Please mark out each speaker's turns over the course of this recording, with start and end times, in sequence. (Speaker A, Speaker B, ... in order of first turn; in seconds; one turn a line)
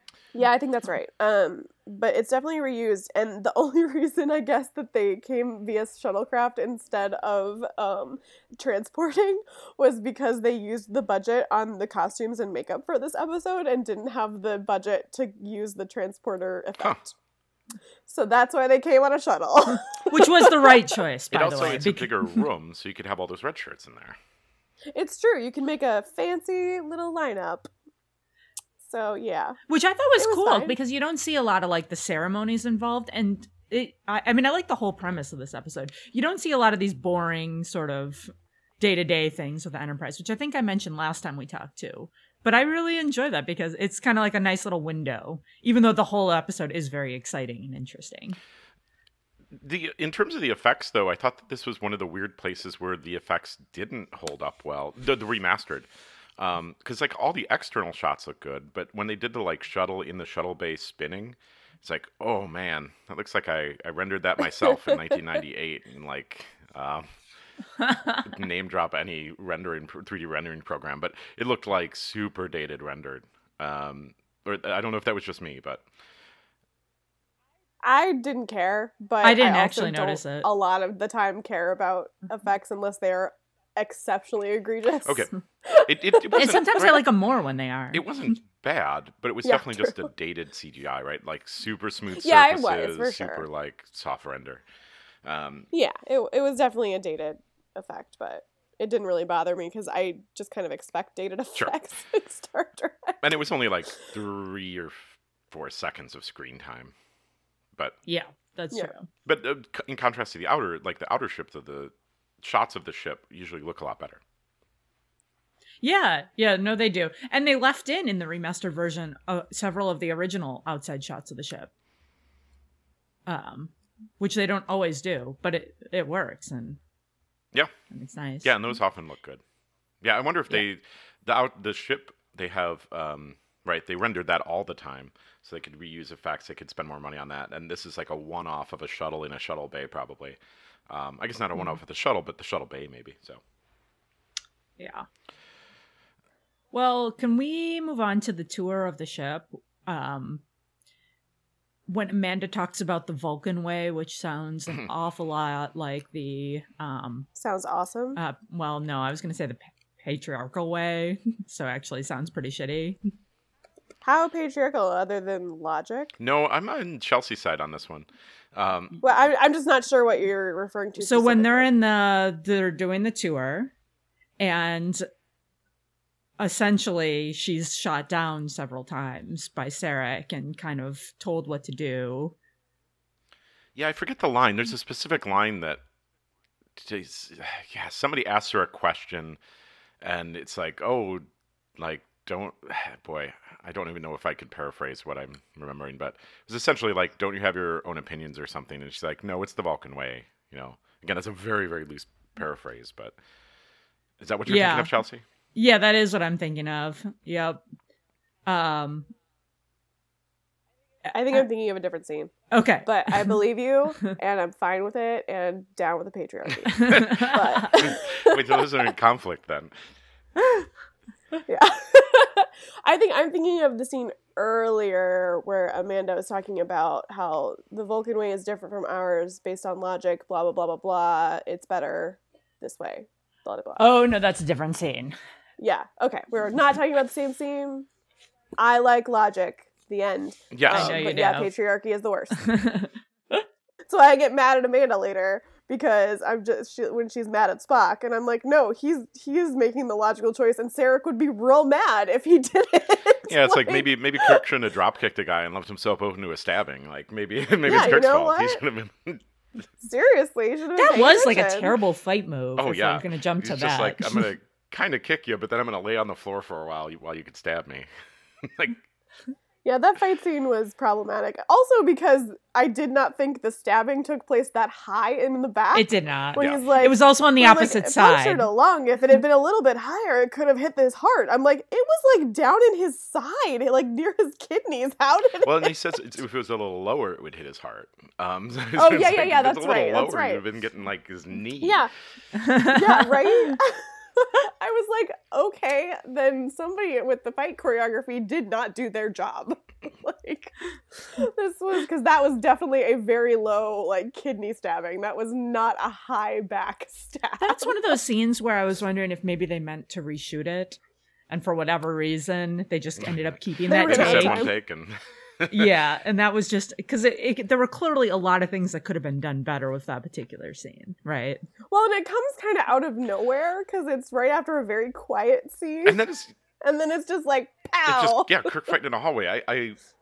Speaker A: 0.3-17.1
Speaker A: 18.1-21.0
Speaker B: 20.1-22.4
Speaker C: 21.3-24.2
Speaker A: 24.9-27.7
Speaker A: 28.9-29.6
Speaker B: 29.7-48.4
Speaker A: 30.2-30.8
Speaker C: 49.6-55.9
Speaker C: 56.4-67.1
Speaker B: 67.9-68.2
Speaker C: 68.2-75.8
Speaker A: 77.8-86.6
Speaker B: 79.2-80.5
Speaker C: 85.0-87.0
Speaker B: 86.4-88.0
Speaker C: 87.9-94.6
Speaker A: 89.5-90.0
Speaker A: 92.2-93.5
Speaker C: 95.2-95.7
Speaker A: 95.7-103.2
Speaker C: 103.2-106.9
Speaker B: 108.1-109.1
Speaker C: 109.3-114.2
Speaker B: 115.8-121.7
Speaker B: 123.3-126.8
Speaker B: 127.9-128.6
Speaker C: 128.4-129.4
Speaker C: 130.0-140.4
Speaker C: 140.9-143.4
Speaker B: 144.8-145.1
Speaker B: 146.7-150.4
Speaker B: 151.9-157.3
Speaker A: 157.4-158.2
Speaker B: 158.2-163.0
Speaker A: 164.0-166.2
Speaker C: 166.2-169.0
Speaker A: 169.0-171.7
Speaker B: 171.0-173.7
Speaker B: 174.4-175.1
Speaker B: 176.4-182.3
Speaker C: 183.8-185.8
Speaker C: 186.8-189.4
Speaker C: 190.0-191.2
Speaker C: 191.8-203.2
Speaker C: 204.2-205.2
Speaker B: 204.5-205.0
Speaker B: 205.6-207.6
Speaker B: 208.5-209.1
Speaker A: 211.1-218.7
Speaker B: 212.5-213.4
Speaker B: 216.7-217.9
Speaker C: 217.7-219.7
Speaker A: 221.5-233.9
Speaker B: 233.8-235.2
Speaker A: 235.6-237.9
Speaker A: 238.6-242.5
Speaker C: 240.5-241.0
Speaker B: 240.7-241.5
Speaker B: 242.4-243.4
Speaker A: 243.9-254.4
Speaker C: 253.3-259.2
Speaker A: 257.6-258.6
Speaker A: 259.8-261.8
Speaker B: 260.8-264.3
Speaker C: 262.6-267.9
Speaker C: 268.4-268.8
Speaker A: 269.6-285.7
Speaker B: 275.7-278.5
Speaker C: 276.4-276.6
Speaker C: 285.4-291.9
Speaker A: 288.8-290.4
Speaker A: 291.6-291.9
Speaker B: 292.4-293.6
Speaker A: 292.5-300.5
Speaker A: 301.1-308.0
Speaker B: 307.4-310.8
Speaker B: 311.3-314.5
Speaker C: 313.0-315.7
Speaker A: 313.7-314.5
Speaker B: 315.5-321.4
Speaker A: 321.7-326.0
Speaker C: 325.9-326.4
Speaker A: 326.6-328.5
Speaker C: 327.9-329.8